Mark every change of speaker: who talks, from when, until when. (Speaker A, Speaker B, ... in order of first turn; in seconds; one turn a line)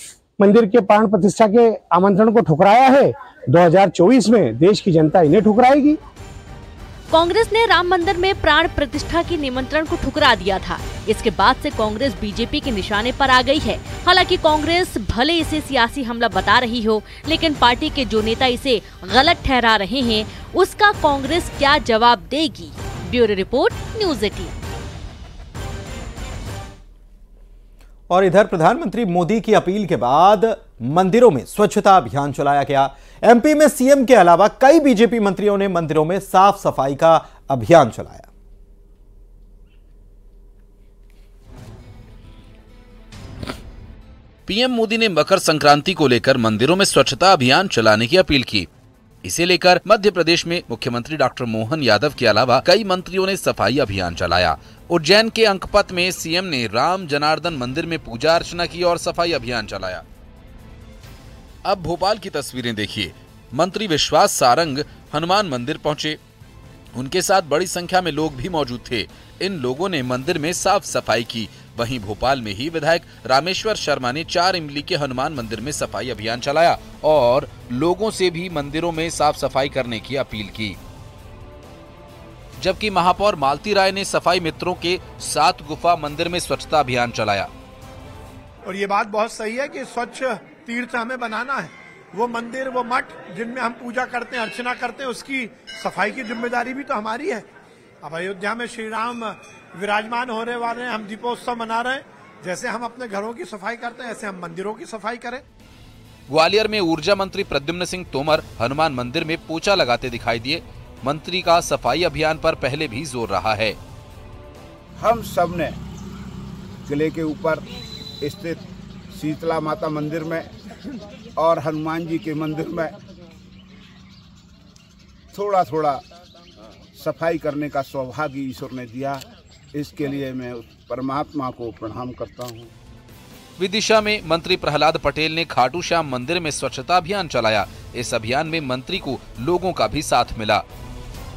Speaker A: 0.4-6.0
Speaker B: 7.5-21.9
Speaker B: 23.2-23.6
Speaker C: 28.1-38.3
Speaker D: 44.5-48.7
Speaker D: 49.2-60.0
Speaker D: 61.6-66.2
Speaker D: 66.9-80.8
Speaker D: 82.6-87.5
Speaker E: 88.6-97.4
Speaker E: 98.0-105.4
Speaker D: 106.3-113.8
Speaker F: 115.0-115.8
Speaker F: 116.8-117.7
Speaker F: 118.2-120.5
Speaker F: 121.4-122.9
Speaker F: 125.3-126.0
Speaker F: 126.9-132.7
Speaker D: 133.6-140.6